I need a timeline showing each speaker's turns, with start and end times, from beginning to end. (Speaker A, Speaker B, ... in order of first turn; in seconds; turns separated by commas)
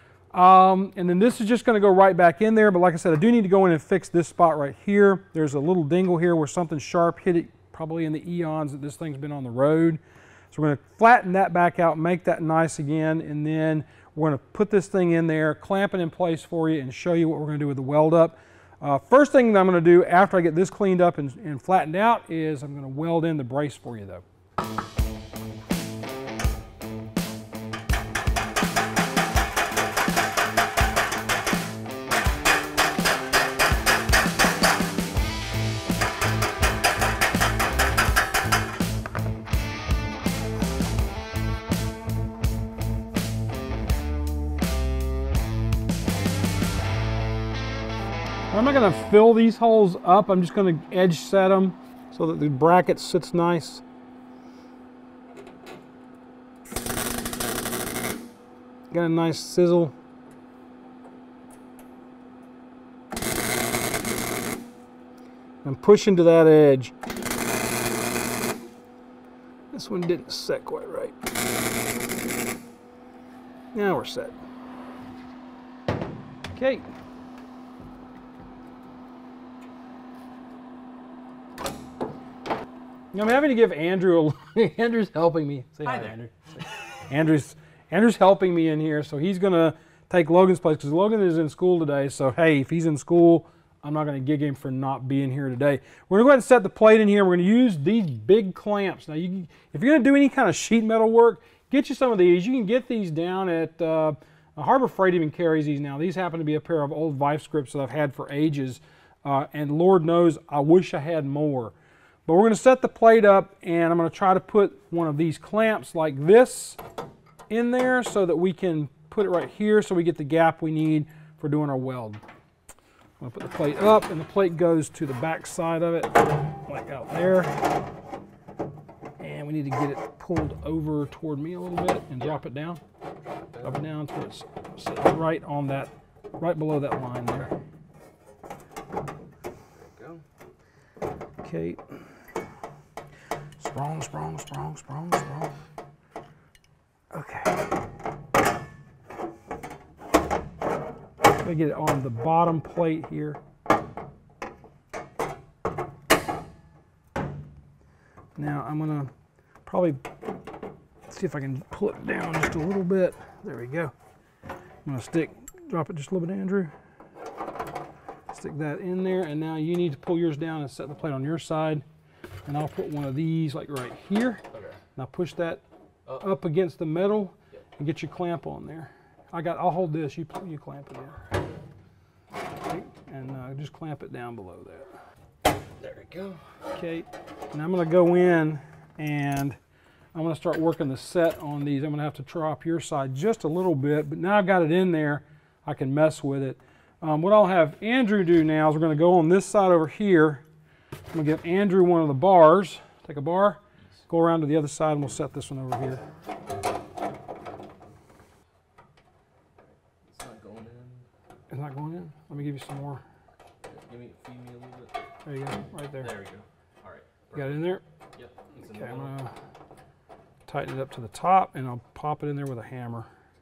Speaker A: 0.3-10.0, Speaker A: 10.5-24.2, Speaker A: 48.5-53.8, Speaker A: 58.9-60.0, Speaker A: 65.6-66.9, Speaker A: 69.7-71.2, Speaker A: 73.7-74.4, Speaker A: 76.5-76.9, Speaker A: 83.1-111.7, Speaker A: 112.3-116.8, Speaker A: 117.5-122.2, Speaker A: 123.2-127.7, Speaker A: 129.2-132.8, Speaker A: 133.6-137.5, Speaker B: 139.8-140.2, Speaker A: 141.4-142.1, Speaker A: 143.6-145.6, Speaker A: 147.1-147.7, Speaker A: 151.4-153.4, Speaker A: 158.4-159.1, Speaker A: 159.7-160.2, Speaker A: 161.1-163.9, Speaker A: 164.8-166.7, Speaker A: 168.3-171.8, Speaker A: 172.4-174.4, Speaker A: 175.0-181.2, Speaker A: 182.7-184.9, Speaker B: 185.8-186.5, Speaker A: 186.7-189.6, Speaker A: 190.1-200.4, Speaker A: 201.1-206.0, Speaker B: 210.1-211.1, Speaker A: 211.5-213.0, Speaker B: 213.7-214.9, Speaker A: 215.2-216.1, Speaker B: 216.0-217.5, Speaker A: 217.3-217.8, Speaker B: 218.1-219.1, Speaker A: 218.7-219.3, Speaker A: 220.5-223.1